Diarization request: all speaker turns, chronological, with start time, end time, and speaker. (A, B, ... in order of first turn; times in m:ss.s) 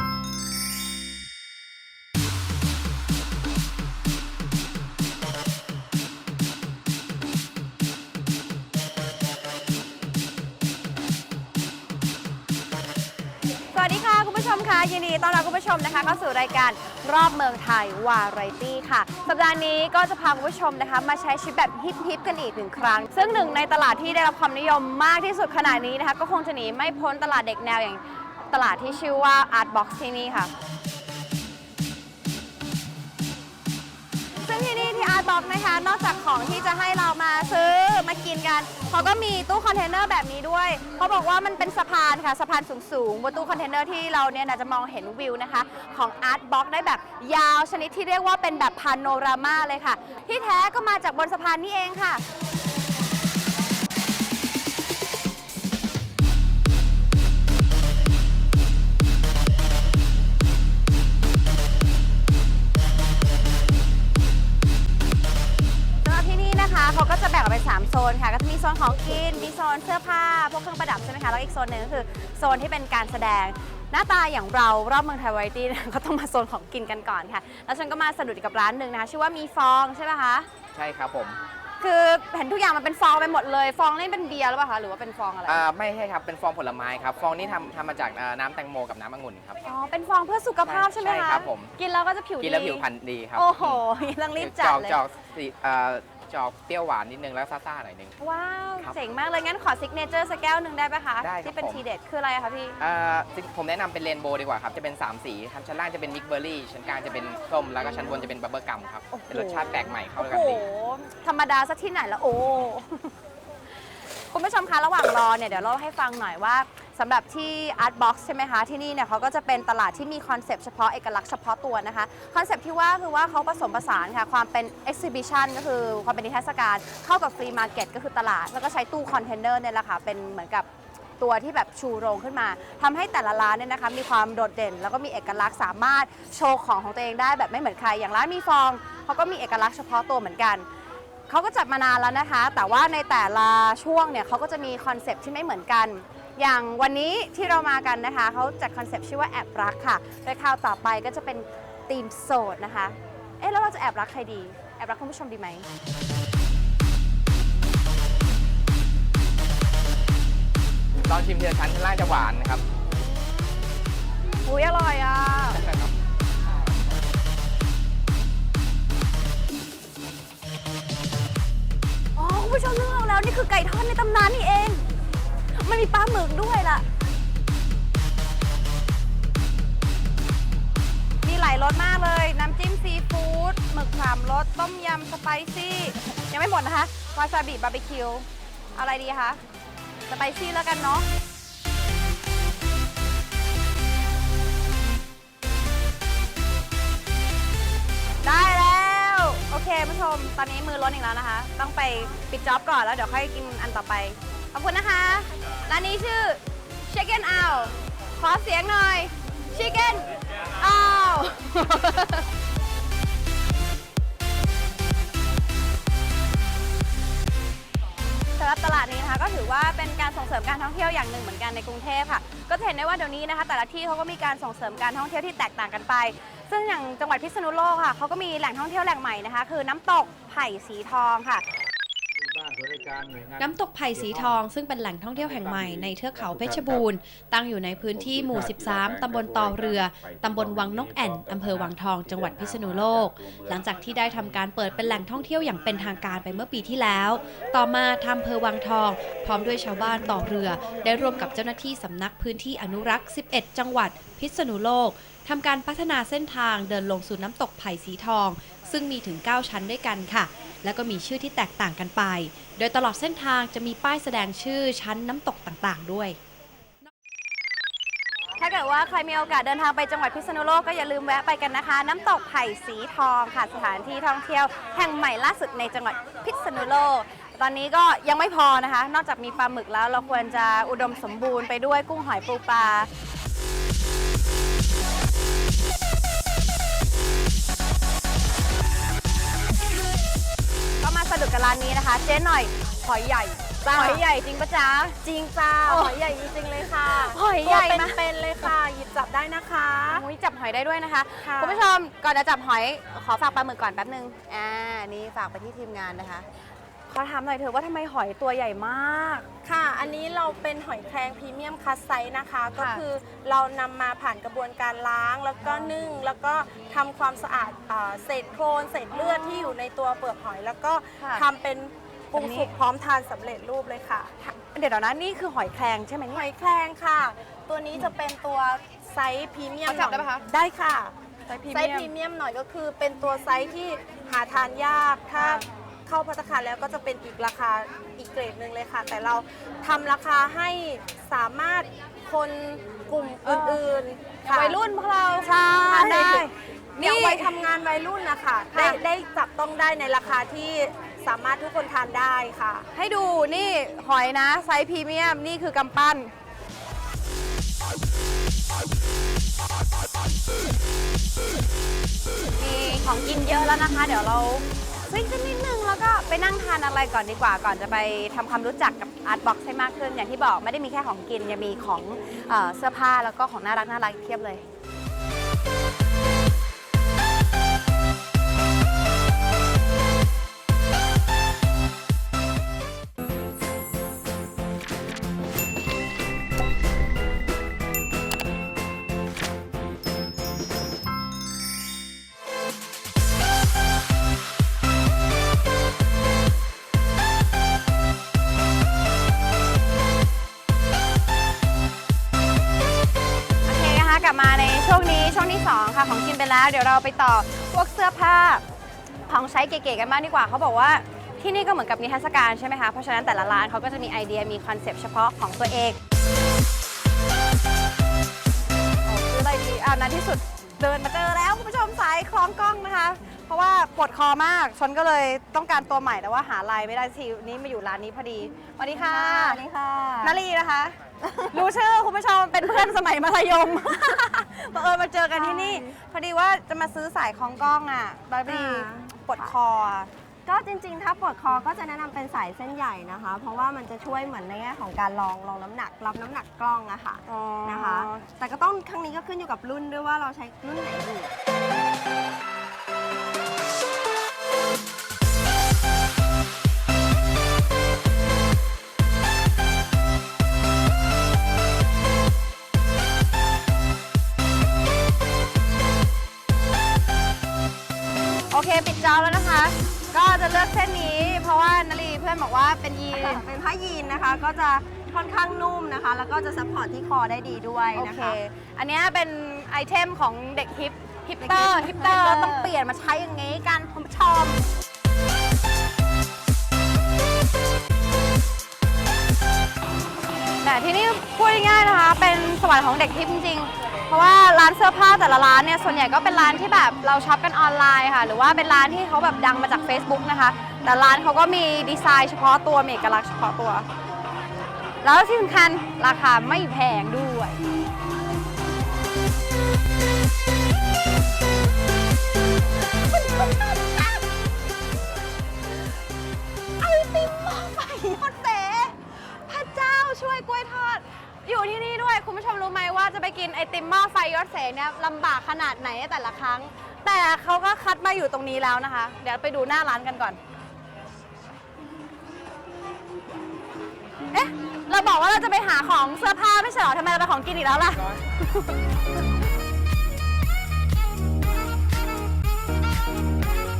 0:13.7-0:30.5 A
0:34.4-0:52.2 A
1:06.0-1:20.5 A
1:20.7-1:21.4 B
1:21.8-1:25.6 A
1:25.4-1:29.6 B
1:29.6-1:35.0 A
1:30.6-1:31.7 B
1:32.4-1:33.8 B
1:34.4-1:38.2 B
1:38.2-1:42.8 A
1:41.2-1:41.8 B
1:42.8-1:50.6 B
1:49.1-1:53.1 A
1:54.3-2:10.7 A
2:11.2-2:20.7 A
2:21.3-2:35.6 A
2:41.1-2:42.6 B
2:44.4-2:45.6 A
2:45.5-2:45.9 B
2:52.2-2:54.8 A
2:55.6-2:56.8 A
3:01.2-3:08.2 A
3:08.8-3:09.4 A
3:10.1-3:11.1 A
3:18.2-3:30.1 A
3:30.6-3:32.2 A
3:38.4-3:51.4 A
3:53.4-4:26.2 C
4:28.4-4:42.9 A
4:50.8-4:55.0 A
4:53.6-4:54.0 D
4:55.0-5:00.0 D
4:55.6-4:56.0 A
4:56.8-4:58.5 A
4:59.9-5:06.2 A
5:01.2-5:01.6 D
5:06.9-5:09.2 A
5:09.4-5:24.1 D
5:12.6-5:12.8 A
5:18.9-5:19.5 A
5:21.0-5:21.2 A
5:22.1-5:22.5 A
5:24.2-5:26.3 A
5:26.1-5:30.9 D
5:29.6-5:30.2 A
5:31.3-5:31.9 A
5:31.5-5:52.6 D
5:35.2-5:35.4 A
5:43.2-5:43.6 A
5:44.2-5:47.3 A
5:48.5-5:48.8 A
5:52.7-5:56.1 A
6:02.4-6:14.4 A
6:43.4-6:48.4 A
6:49.1-6:55.8 A
6:58.9-7:09.4 A
7:08.7-7:10.2 E
7:10.0-7:10.8 A
7:11.0-7:11.5 E
7:11.3-7:19.9 A
7:15.1-7:15.7 E
7:18.2-7:19.3 E
7:20.3-7:31.1 E
7:27.1-7:28.0 A
7:48.3-7:53.2 A
7:52.9-7:58.2 E
7:57.7-8:04.4 A
8:01.2-8:02.5 E
8:10.4-8:23.7 A
8:24.8-8:27.4 A
8:32.9-8:33.2 A
8:36.6-8:38.7 A
8:39.3-8:50.2 A
8:54.1-8:58.5 A